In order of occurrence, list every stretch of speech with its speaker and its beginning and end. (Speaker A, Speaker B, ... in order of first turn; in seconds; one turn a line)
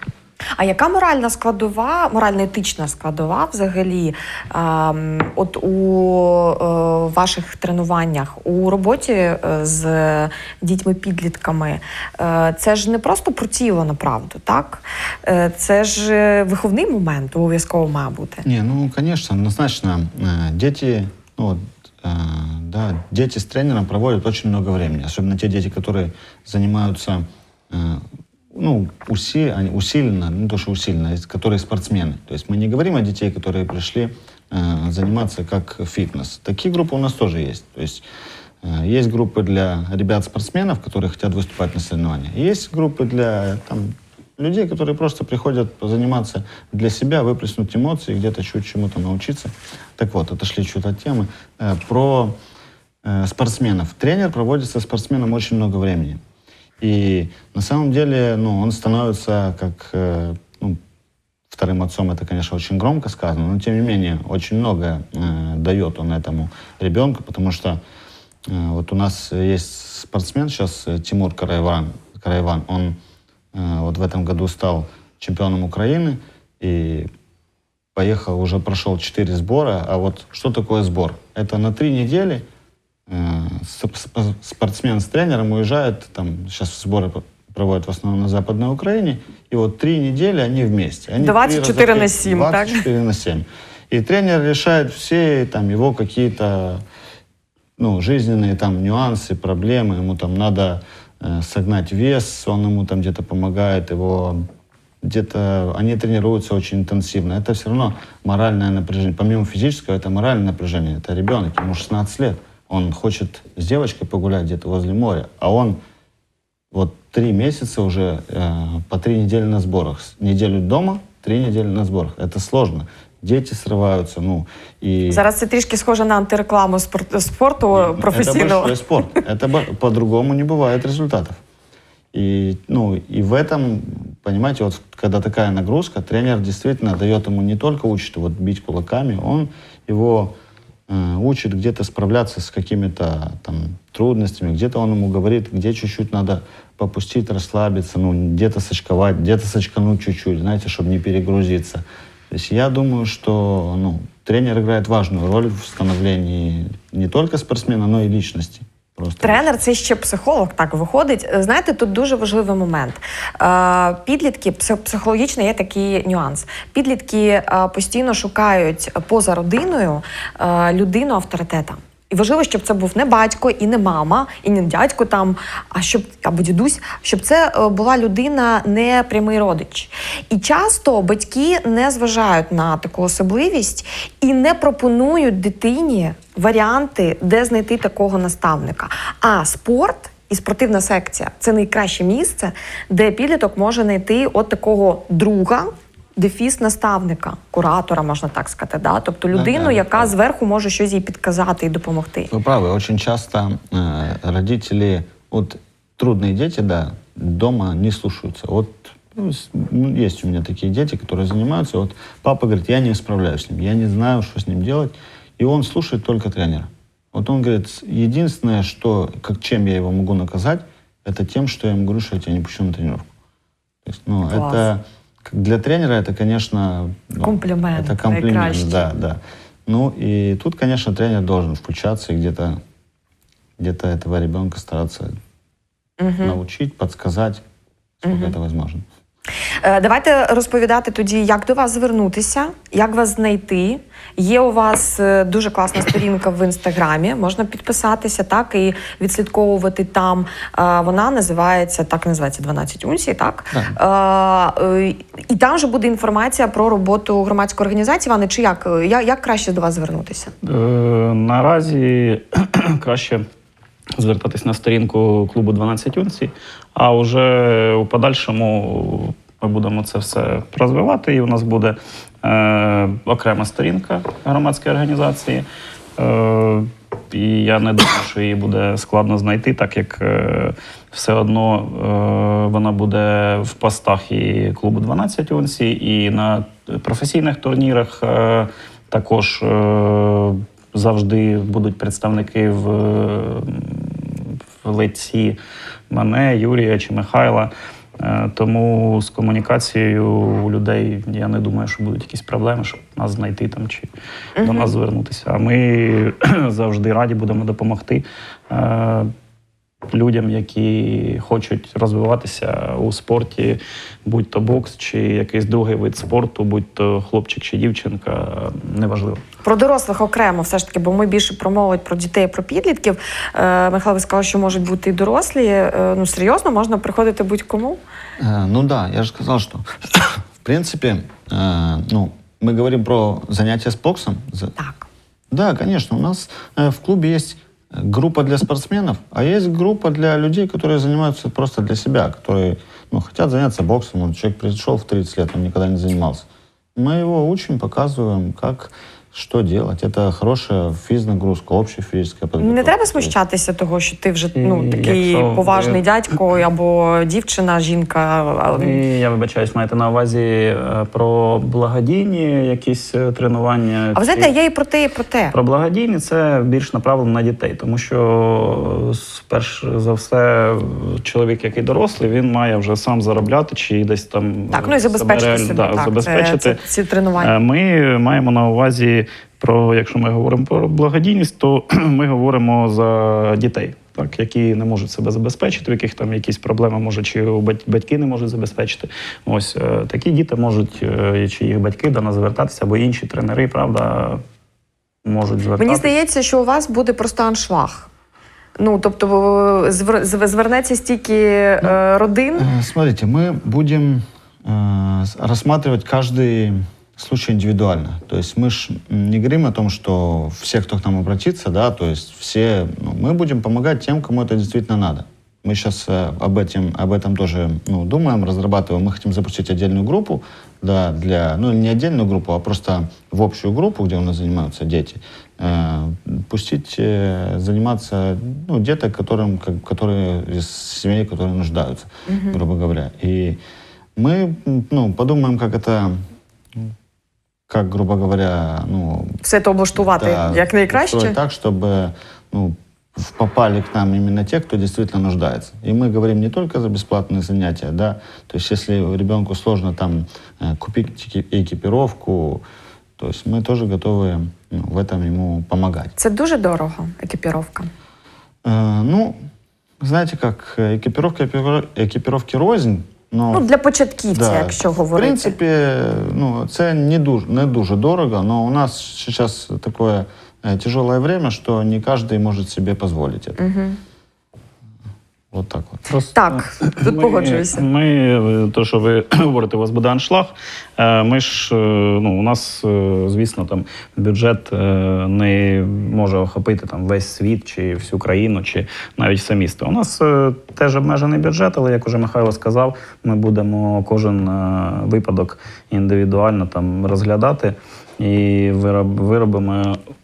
Speaker A: 0.6-18.4
Speaker B: 18.4-38.0
Speaker B: 38.6-52.4
Speaker B: 53.0-56.2
Speaker B: 56.8-60.8
Speaker B: 61.5-67.8
Speaker B: 68.5-73.0
Speaker B: 73.5-77.1
Speaker B: 78.0-82.5
Speaker B: 83.1-96.8
Speaker A: 91.2-92.8
Speaker B: 97.8-104.4
Speaker B: 105.0-115.8
Speaker B: 116.7-125.2
Speaker A: 125.1-129.2
Speaker B: 127.7-131.4
Speaker B: 132.1-140.4
Speaker B: 140.9-159.5
Speaker A: 159.2-202.3
Speaker B: 199.3-200.1
Speaker B: 202.3-223.1
Speaker B: 223.8-232.6
Speaker A: 224.3-224.7
Speaker A: 227.2-228.9
Speaker B: 233.6-235.2
Speaker A: 236.0-236.4
Speaker B: 236.2-237.4
Speaker B: 238.0-238.8
Speaker A: 238.1-238.3
Speaker A: 239.6-260.3
Speaker C: 260.4-263.2
Speaker C: 264.0-275.4
Speaker C: 276.0-295.4
Speaker C: 295.9-303.9
Speaker A: 304.4-304.7
Speaker C: 304.4-309.1
Speaker C: 309.9-319.2
Speaker A: 319.4-327.8
Speaker B: 328.2-334.6
Speaker A: 334.6-334.9
Speaker B: 335.3-353.1
Speaker A: 352.4-358.8
Speaker C: 354.4-355.8
Speaker C: 358.5-364.3
Speaker A: 363.9-365.4
Speaker C: 365.3-376.6
Speaker A: 374.5-377.3
Speaker C: 377.2-394.2
Speaker C: 395.0-395.9
Speaker A: 395.6-397.9
Speaker A: 398.6-402.5
Speaker B: 402.4-433.4
Speaker A: 432.1-432.4
Speaker B: 434.0-436.0
Speaker B: 437.5-439.2
Speaker A: 439.2-441.2
Speaker B: 439.8-452.4
Speaker B: 453.0-455.9
Speaker A: 456.0-457.7
Speaker B: 458.4-459.2
Speaker B: 459.8-463.5
Speaker A: 463.3-465.4
Speaker B: 464.1-473.4
Speaker A: 473.4-473.8
Speaker B: 475.3-475.9
Speaker C: 475.9-499.8
Speaker A: 476.1-477.6